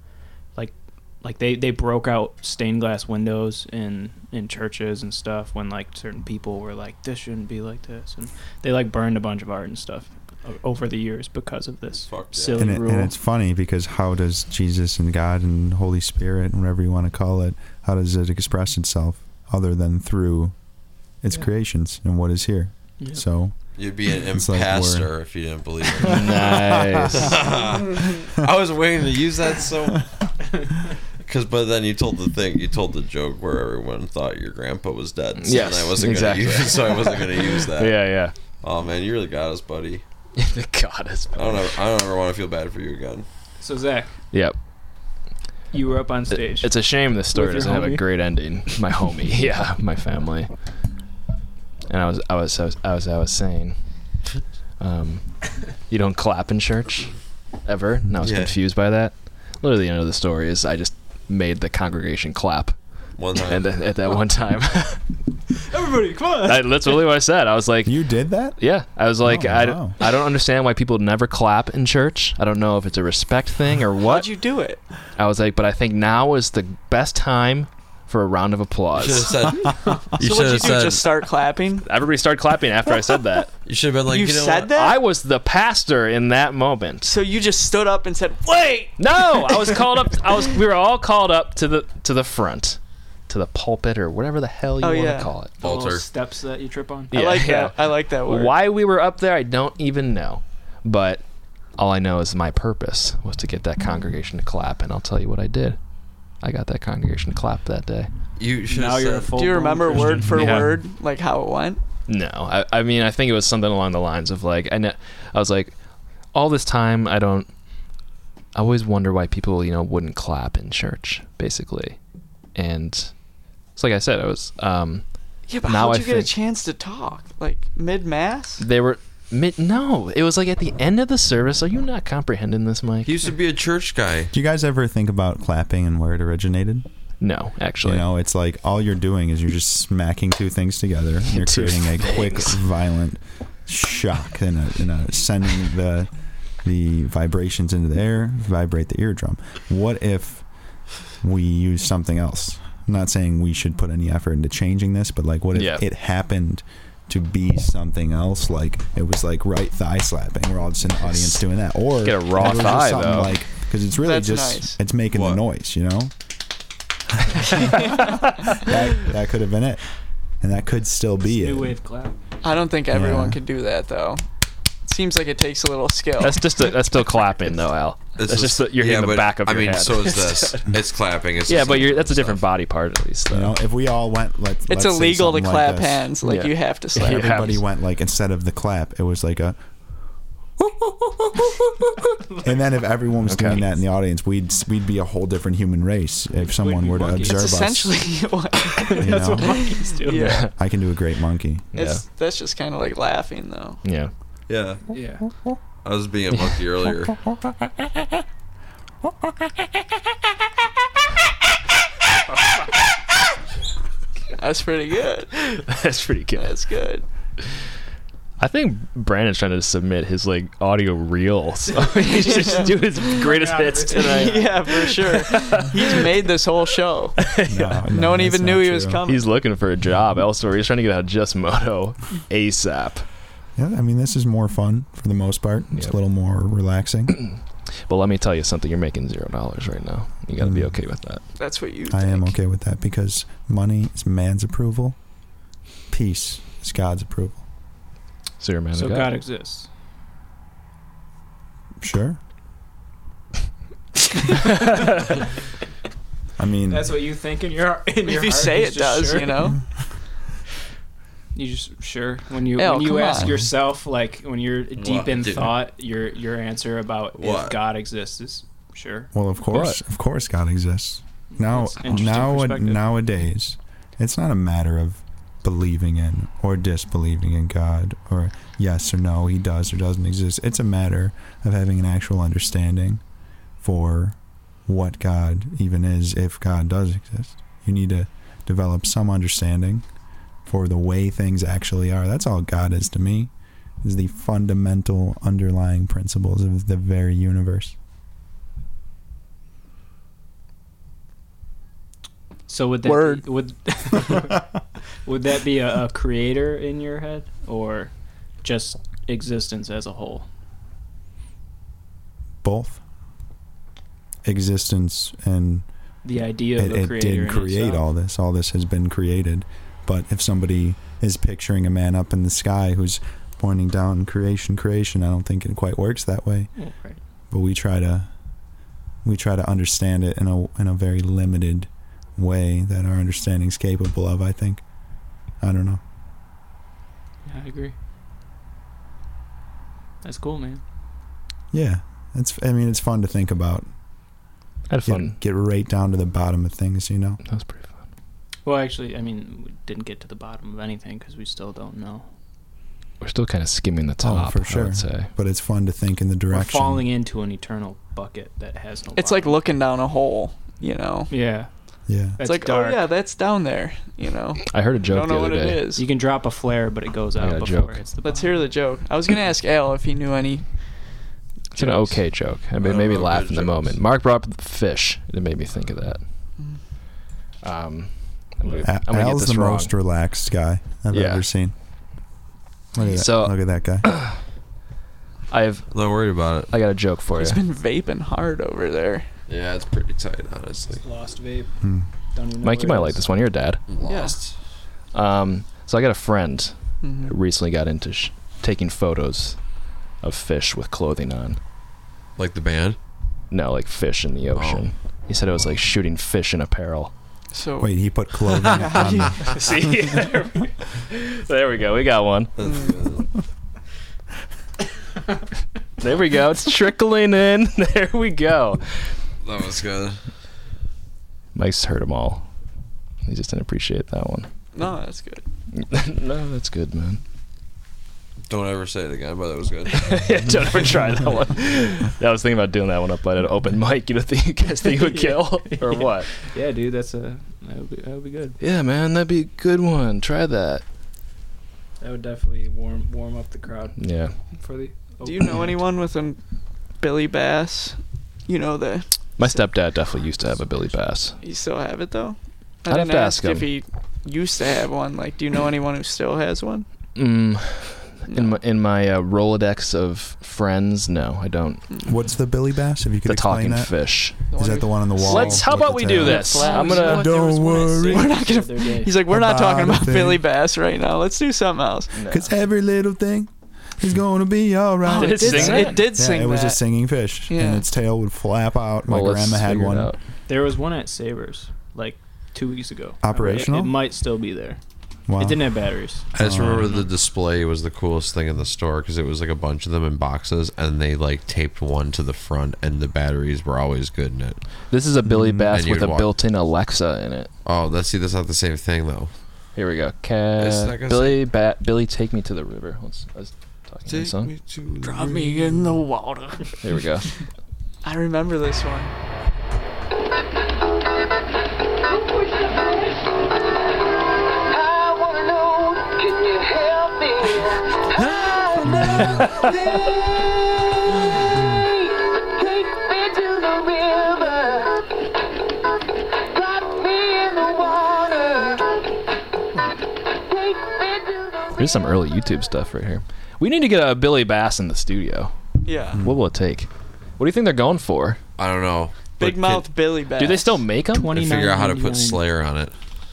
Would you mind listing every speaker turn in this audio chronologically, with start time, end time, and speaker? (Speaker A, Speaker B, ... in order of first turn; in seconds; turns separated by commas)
Speaker A: 0.6-13.2, Speaker B: 12.1-12.8, Speaker C: 12.6-20.7, Speaker C: 21.2-25.1, Speaker B: 23.8-30.1, Speaker D: 26.0-27.3, Speaker B: 31.2-40.0, Speaker D: 35.4-37.1, Speaker D: 37.8-38.3, Speaker D: 40.4-41.8, Speaker B: 41.4-43.3, Speaker A: 43.6-44.1, Speaker A: 45.7-48.2, Speaker D: 46.3-50.5, Speaker D: 51.9-53.8, Speaker D: 54.8-57.1, Speaker D: 57.6-62.8, Speaker B: 58.2-58.5, Speaker B: 63.2-63.7, Speaker D: 63.4-65.0, Speaker A: 65.6-67.0, Speaker D: 66.4-74.3, Speaker C: 67.8-68.6, Speaker C: 69.2-70.0, Speaker E: 74.0-74.8, Speaker D: 75.2-79.3, Speaker B: 79.0-81.1, Speaker E: 80.2-81.9, Speaker D: 81.8-83.5, Speaker B: 83.7-84.7, Speaker E: 84.1-85.0, Speaker D: 84.7-87.1, Speaker E: 87.0-89.0, Speaker D: 89.0-95.5, Speaker E: 94.8-95.3, Speaker A: 95.6-97.2, Speaker B: 95.6-96.1, Speaker D: 97.1-105.8, Speaker E: 97.1-98.6, Speaker D: 106.4-108.1, Speaker B: 108.4-109.4, Speaker A: 108.7-110.8, Speaker E: 109.3-111.8, Speaker D: 110.2-110.7, Speaker D: 112.1-115.8, Speaker D: 116.3-117.5, Speaker D: 118.5-122.0, Speaker D: 122.5-123.2, Speaker D: 123.8-125.0, Speaker E: 125.5-128.6, Speaker D: 125.6-126.3, Speaker D: 128.6-133.2, Speaker B: 133.1-134.3, Speaker C: 134.3-136.9, Speaker D: 137.2-138.1, Speaker C: 137.8-150.5, Speaker D: 141.3-142.6, Speaker C: 151.0-166.1, Speaker D: 155.5-155.8, Speaker D: 162.0-163.3, Speaker E: 164.0-164.8, Speaker B: 165.1-165.4, Speaker C: 167.2-169.8, Speaker C: 170.4-171.8, Speaker A: 171.3-172.2, Speaker E: 172.4-174.3, Speaker C: 172.9-173.4, Speaker E: 174.8-176.7, Speaker D: 176.2-180.6, Speaker B: 178.2-182.5, Speaker D: 181.5-183.6, Speaker C: 183.3-186.1, Speaker E: 184.7-187.5, Speaker D: 186.2-187.6, Speaker C: 187.1-189.7, Speaker C: 190.6-191.5, Speaker C: 192.4-198.0, Speaker D: 193.3-193.6, Speaker A: 196.6-197.5, Speaker E: 197.2-200.5, Speaker A: 198.8-200.4, Speaker C: 199.0-199.6, Speaker D: 200.1-200.5, Speaker C: 200.5-201.7, Speaker D: 201.7-202.0, Speaker E: 201.8-203.8, Speaker D: 203.8-204.1, Speaker B: 204.5-204.8, Speaker A: 204.9-205.3, Speaker B: 205.8-207.2, Speaker E: 214.3-215.7, Speaker D: 215.7-216.5, Speaker E: 216.4-217.1, Speaker D: 218.4-226.0, Speaker E: 222.1-223.0, Speaker A: 222.6-224.7, Speaker E: 223.9-227.3, Speaker D: 227.2-227.8, Speaker C: 227.5-229.0, Speaker E: 227.9-229.2, Speaker D: 229.1-233.1, Speaker C: 233.6-237.2, Speaker D: 237.1-241.2, Speaker C: 240.4-240.8, Speaker E: 241.4-242.3, Speaker C: 241.9-245.0, Speaker C: 245.9-247.4, Speaker D: 248.4-249.2, Speaker A: 248.7-249.7, Speaker C: 251.8-252.2, Speaker C: 256.4-257.0, Speaker A: 256.7-259.5, Speaker E: 258.0-259.6, Speaker A: 261.3-269.1, Speaker E: 262.5-263.4, Speaker B: 264.8-265.6, Speaker B: 267.1-267.6, Speaker C: 269.1-283.0, Speaker D: 269.5-269.8, Speaker A: 271.4-272.8, Speaker C: 283.6-289.9, Speaker C: 290.4-297.8, Speaker A: 302.5-304.5, Speaker E: 302.9-303.2, Speaker A: 305.1-310.3, Speaker C: 312.4-312.8, Speaker C: 314.2-315.7, Speaker A: 316.0-317.9, Speaker C: 316.6-326.5, Speaker A: 326.6-327.0, Speaker C: 327.3-328.1, Speaker C: 329.0-334.7, Speaker C: 335.4-335.8, Speaker A: 337.2-337.7, Speaker A: 340.0-340.6, Speaker C: 341.5-343.7, Speaker D: 344.7-345.2, Speaker C: 344.9-347.2, Speaker D: 347.2-347.8, Speaker A: 348.4-352.1, Speaker D: 353.0-355.1, Speaker C: 354.0-356.9, Speaker A: 356.3-359.4, Speaker E: 358.9-361.2, Speaker A: 361.1-362.9, Speaker C: 361.9-362.2, Speaker E: 362.2-365.9, Speaker D: 364.5-365.6, Speaker A: 365.8-368.5, Speaker D: 367.2-367.8, Speaker E: 368.0-370.6, Speaker D: 371.5-376.1, Speaker B: 372.6-373.8, Speaker D: 377.4-379.8, Speaker C: 378.6-381.5, Speaker D: 380.9-381.2, Speaker C: 382.7-383.9, Speaker D: 382.8-384.2, Speaker D: 385.3-385.8, Speaker B: 385.7-386.5, Speaker D: 386.5-387.4, Speaker E: 387.1-389.1, Speaker B: 389.3-390.8, Speaker A: 390.8-393.2, Speaker C: 391.6-391.9, Speaker D: 392.4-393.6, Speaker B: 393.7-394.4, Speaker E: 393.9-394.2, Speaker D: 394.9-401.4, Speaker E: 396.8-397.1, Speaker B: 402.2-402.8, Speaker D: 403.3-406.9, Speaker B: 404.4-404.7, Speaker E: 407.3-409.4, Speaker C: 407.6-409.3, Speaker A: 409.4-410.5, Speaker D: 409.4-412.3, Speaker B: 412.4-413.1, Speaker E: 412.4-412.8, Speaker D: 415.8-418.9, Speaker B: 419.2-420.0, Speaker D: 421.4-422.3, Speaker D: 423.1-424.3, Speaker E: 424.5-425.2, Speaker D: 425.5-427.0, Speaker B: 428.3-430.0, Speaker D: 429.7-436.1, Speaker A: 434.7-438.4, Speaker D: 438.4-440.6, Speaker A: 441.8-445.5, Speaker D: 443.8-444.1, Speaker E: 445.0-446.2, Speaker E: 446.8-449.5, Speaker D: 449.2-451.2, Speaker E: 451.2-456.7, Speaker D: 452.7-453.5, Speaker D: 456.9-461.6, Speaker E: 458.1-458.4, Speaker E: 461.7-462.0, Speaker C: 461.9-468.1, Speaker D: 463.1-464.3, Speaker E: 464.3-471.9, Speaker D: 465.0-467.1, Speaker A: 466.1-469.0, Speaker C: 469.1-470.2, Speaker D: 471.9-472.3, Speaker C: 472.1-479.9, Speaker E: 474.8-476.6, Speaker D: 474.9-475.9, Speaker A: 475.3-475.7, Speaker E: 477.3-477.6, Speaker D: 478.9-480.0, Speaker A: 480.3-484.6, Speaker C: 483.0-483.8, Speaker C: 485.1-485.6, Speaker A: 485.1-486.1, Speaker C: 486.1-486.7, Speaker B: 486.1-494.5, Speaker D: 494.7-497.3, Speaker C: 495.1-495.6, Speaker B: 495.5-496.1, Speaker B: 497.4-499.1, Speaker D: 499.6-504.3, Speaker B: 500.4-501.2, Speaker B: 503.9-505.8, Speaker E: 504.8-506.6, Speaker D: 506.6-507.1, Speaker E: 507.8-508.9, Speaker D: 531.5-535.3, Speaker E: 535.6-536.1, Speaker D: 536.0-538.2, Speaker B: 538.4-539.7, Speaker E: 539.2-540.7, Speaker D: 540.2-541.2, Speaker A: 540.9-542.2, Speaker B: 541.1-542.7